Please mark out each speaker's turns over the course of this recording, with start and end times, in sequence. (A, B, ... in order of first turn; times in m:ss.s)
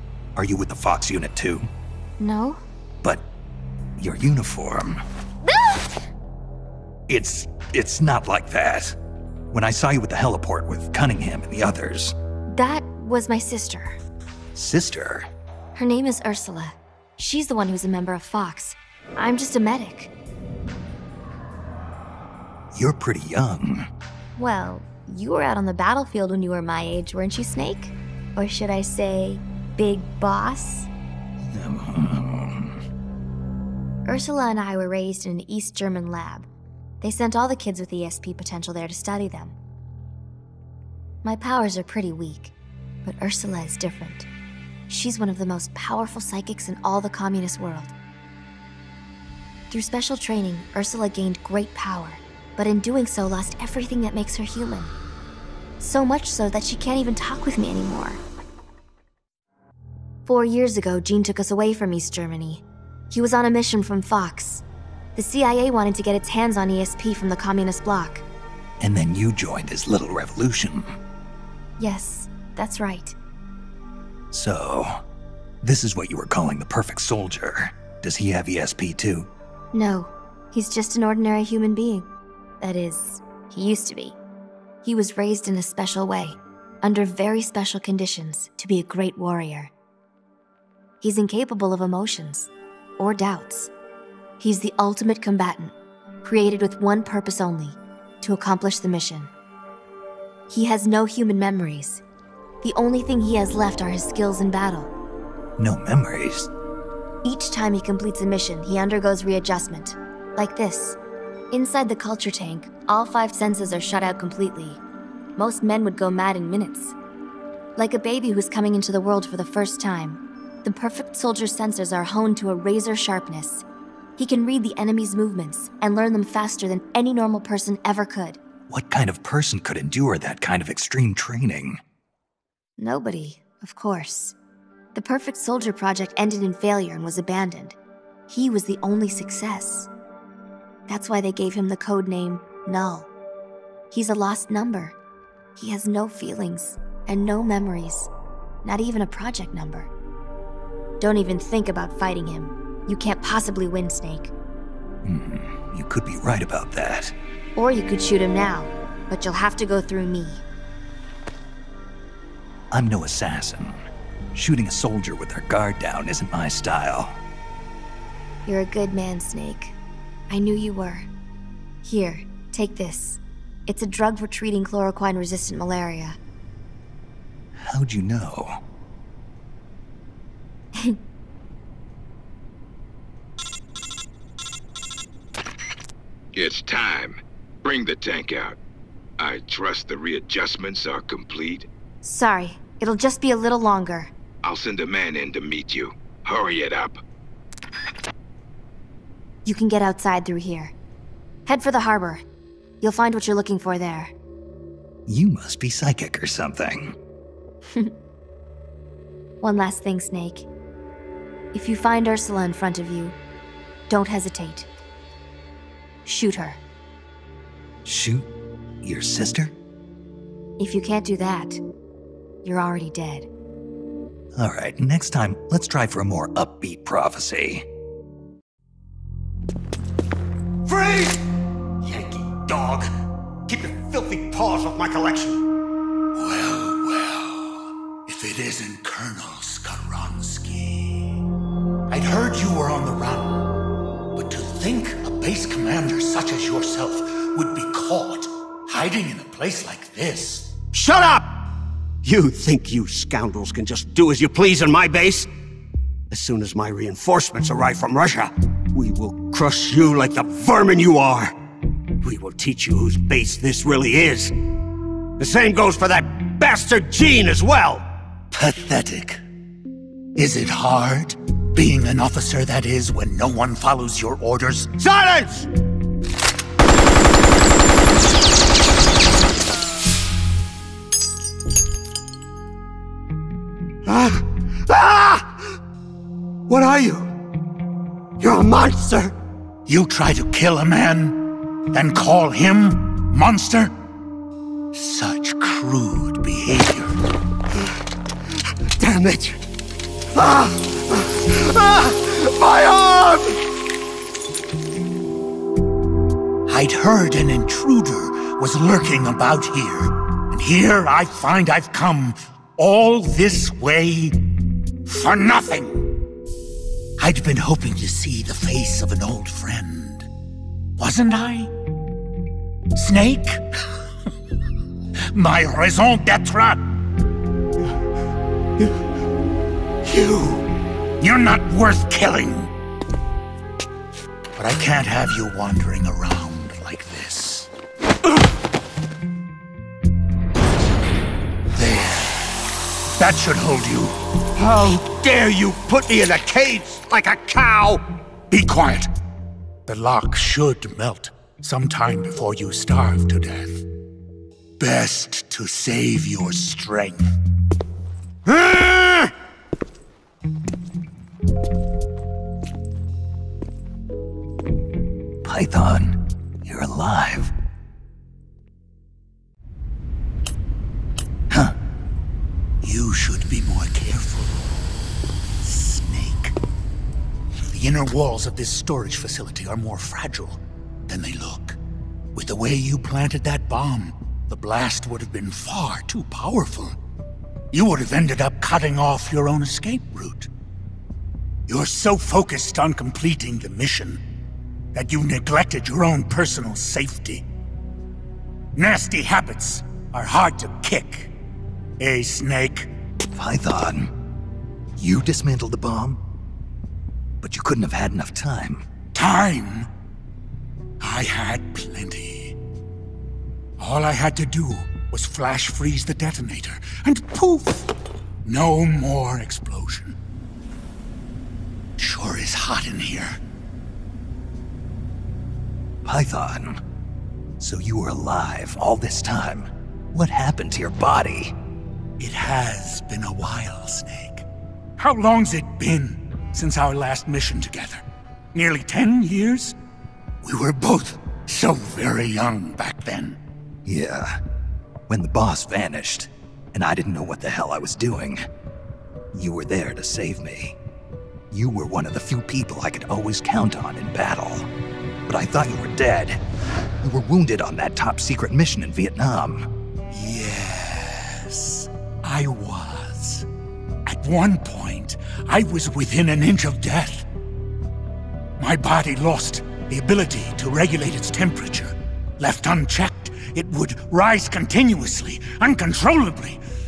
0:00.3-0:01.7 A
0:02.2-0:02.6 B
0:04.0-0:05.0 A
0:07.1-0:09.0 A
0:09.5-0:12.1 A
0:12.5-0:14.0 B
0:14.5-0:15.3 A
0:15.7-0:20.1 B
0:22.7-0:23.9 A
0:24.4-0:30.9 B
0:31.4-0:32.8 A
0:34.0-0:36.5 B
0:37.0-0:39.5 B
0:41.2-0:42.5 B
0:43.0-0:44.3 B
0:44.9-0:47.9 B
0:49.7-0:54.9 B
0:55.8-0:58.2 B
1:00.2-1:04.6 B
1:05.2-1:08.2 B
1:08.8-1:11.0 A
1:11.8-1:13.2 B
1:14.3-1:15.0 A
1:15.6-1:19.3 A
1:19.7-1:22.1 B
1:22.6-1:24.2 B
1:24.8-1:29.7 B
1:31.0-1:33.7 B
1:34.4-1:39.3 B
1:40.5-1:42.0 B
1:42.6-1:44.9 B
1:45.6-1:46.5 A
1:47.2-1:51.0 B
1:51.5-1:54.8 B
1:55.4-1:56.9 B
1:57.8-2:03.6 B
2:04.2-2:08.4 B
2:08.7-2:11.8 A
2:12.8-2:14.3 B
2:14.9-2:17.8 B
2:18.3-2:19.9 B
2:20.9-2:23.1 B
2:23.9-2:25.0 B
2:25.6-2:28.1 B
2:28.6-2:29.9 B
2:31.0-2:34.3 B
2:35.0-2:37.1 A
2:37.6-2:40.4 B
2:42.7-2:47.2 A
2:48.4-2:49.7 B
2:50.3-2:51.1 B
2:51.8-2:56.2 B
2:57.6-2:58.6 A
3:06.3-3:08.6 C
3:09.2-3:11.7 C
3:12.0-3:14.1 B
3:14.4-3:17.0 C
3:19.4-3:20.7 B
3:21.4-3:22.2 B
3:22.8-3:24.1 B
3:25.0-3:27.0 A
3:27.7-3:27.9 B
3:29.4-3:30.5 B
3:31.5-3:33.2 B
3:33.9-3:34.7 B
3:36.0-3:36.6 B
3:37.8-3:38.3 A
3:38.8-3:39.5 A
3:40.6-3:41.6 B
3:42.4-3:43.3 B
3:44.3-3:47.6 A
3:50.7-3:51.2 D
3:51.9-3:52.9 E
3:53.5-3:55.4 D
3:56.2-3:57.5 E
3:58.0-4:01.1 E
4:01.9-4:03.5 E
4:04.1-4:10.5 E
4:10.7-4:11.3 D
4:12.0-4:15.3 D
4:16.1-4:21.3 D
4:22.0-4:24.3 D
4:25.2-4:27.8 D
4:28.4-4:29.2 A
4:30.2-4:34.7 E
4:34.8-4:35.5 D
4:43.9-4:45.3 D
4:46.5-4:47.0 D
4:48.2-4:49.1 D
4:49.7-4:51.2 E
4:51.7-4:53.7 E
4:54.7-4:56.9 E
4:58.8-4:59.3 D
5:02.1-5:03.2 D
5:06.5-5:14.1 E
5:14.8-5:15.8 E
5:17.0-5:20.1 E
5:20.8-5:21.5 E
5:22.8-5:23.4 E
5:25.1-5:26.6 E
5:29.9-5:30.4 E
5:31.0-5:32.5 E
5:34.4-5:37.5 E
5:41.6-5:42.0 E
5:43.0-5:44.0 E
5:44.4-5:45.4 D
5:46.9-5:47.8 D
5:48.3-5:48.9 E
5:49.6-5:53.6 E
5:54.6-5:57.0 E
6:05.2-6:07.3 A
6:12.6-6:14.5 E
6:15.4-6:16.3 E
6:17.5-6:21.6 E
6:22.1-6:26.7 E
6:27.5-6:30.3 E
6:31.5-6:34.0 E
6:34.7-6:37.2 E
6:38.6-6:41.1 E
6:41.8-6:42.7 E
6:43.1-6:43.9 A
6:44.8-6:46.0 A
6:47.2-6:48.6 A
6:48.9-6:49.7 E
6:50.8-6:52.3 E
6:53.6-6:57.6 E
6:58.2-6:59.9 E
7:01.8-7:03.2 E
7:05.8-7:06.6 A
7:07.4-7:11.3 A
7:12.0-7:14.2 E
7:14.8-7:17.8 E
7:18.3-7:19.5 E
7:20.2-7:23.2 E
7:23.6-7:24.2 A
7:24.9-7:28.2 A
7:29.1-7:30.6 A
7:31.3-7:34.5 A
7:35.1-7:36.2 A
7:36.8-7:39.5 A
7:39.9-7:43.2 E
7:43.8-7:47.0 E
7:48.4-7:56.4 E